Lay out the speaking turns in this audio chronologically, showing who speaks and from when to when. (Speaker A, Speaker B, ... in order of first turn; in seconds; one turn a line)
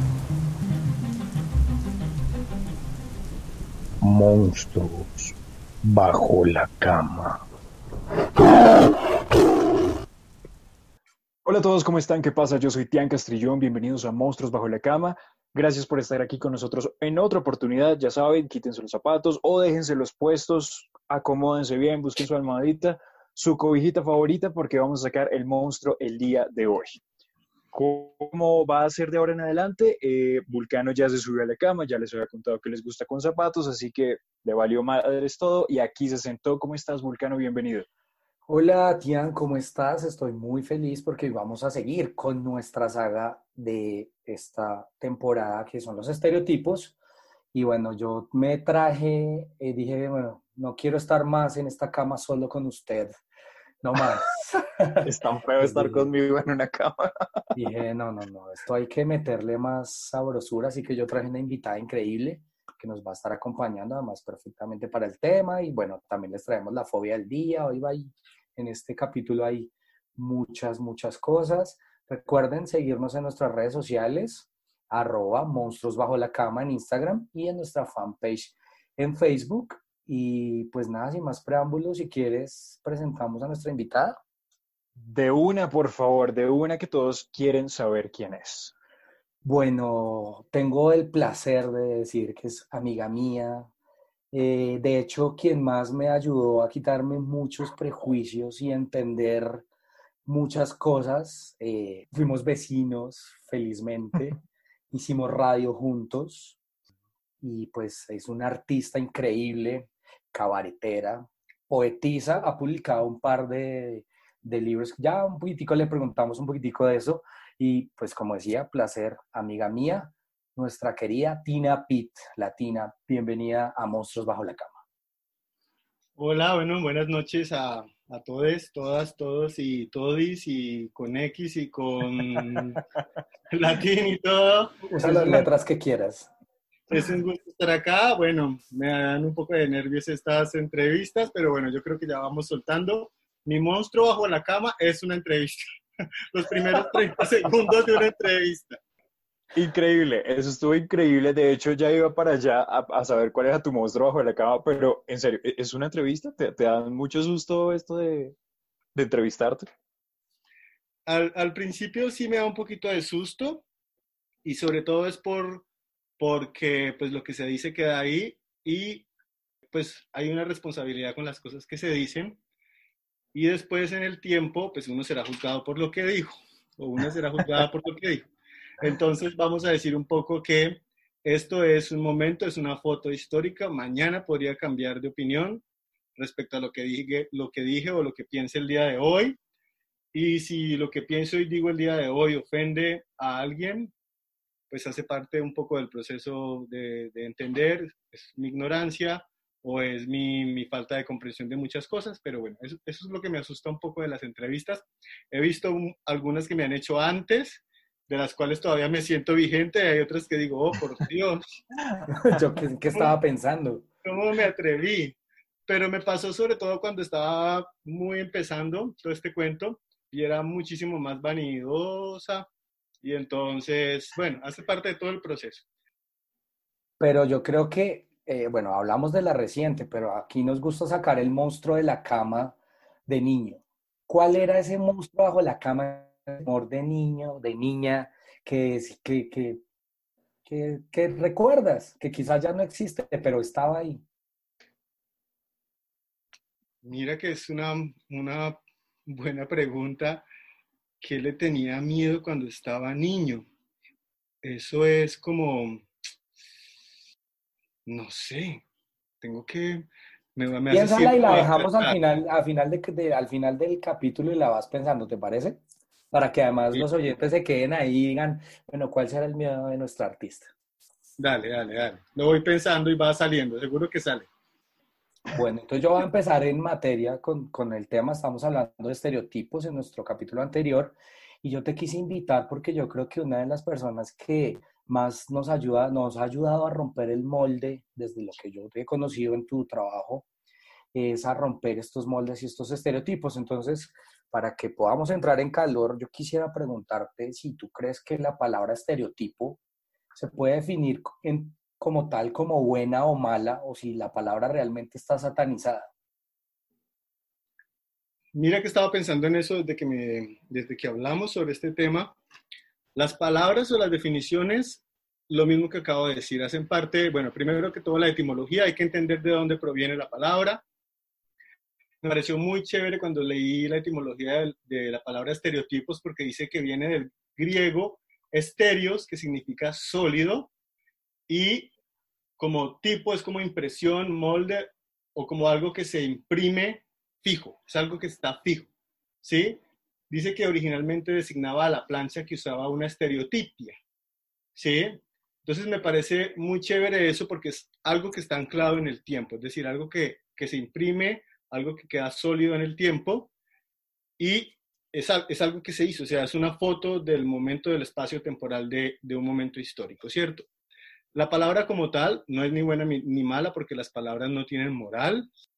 Speaker A: 4.0-7.4
Speaker B: 11.4-27.0
Speaker B: 27.7-37.9
Speaker A: 38.5-47.0
Speaker A: 47.5-53.1
Speaker A: 53.8-56.1
Speaker B: 55.0-57.4
Speaker A: 57.5-84.2
Speaker B: 85.0-88.7
Speaker A: 89.4-93.7
Speaker A: 94.3-99.7
Speaker A: 100.3-104.4
Speaker A: 104.9-106.6
Speaker A: 107.4-124.8
Speaker C: 126.2-132.8
Speaker C: 133.5-135.5
Speaker A: 134.9-136.3
Speaker C: 136.9-145.6
Speaker C: 146.3-148.8
Speaker B: 149.5-158.3
Speaker B: 158.9-159.7
Speaker C: 161.1-163.6
Speaker C: 164.4-165.7
Speaker C: 166.2-169.1
Speaker C: 169.7-172.4
Speaker C: 173.3-178.3
Speaker C: 178.8-185.6
Speaker C: 186.2-189.4
Speaker C: 190.1-193.9
Speaker C: 194.7-211.4
Speaker B: 211.9-212.4
Speaker A: 212.1-213.9
Speaker C: 214.0-222.5
Speaker C: 223.0-225.7
Speaker A: 227.0-232.6
Speaker A: 233.1-239.6
Speaker A: 240.5-244.0
Speaker C: 246.8-250.3
Speaker C: 251.0-253.4
Speaker C: 254.4-255.9
Speaker C: 257.9-258.6
Speaker C: 259.2-262.0
Speaker A: 260.7-270.5
Speaker C: 271.2-274.3
Speaker A: 275.3-290.3
Speaker A: 290.9-299.6
Speaker A: 300.1-305.9
Speaker C: 308.4-312.2
Speaker C: 312.9-320.6
Speaker C: 322.0-330.5
Speaker C: 331.3-331.7
Speaker C: 332.4-338.7
Speaker C: 339.2-343.8
Speaker C: 344.6-353.3
Speaker C: 354.2-360.5
Speaker C: 361.1-365.3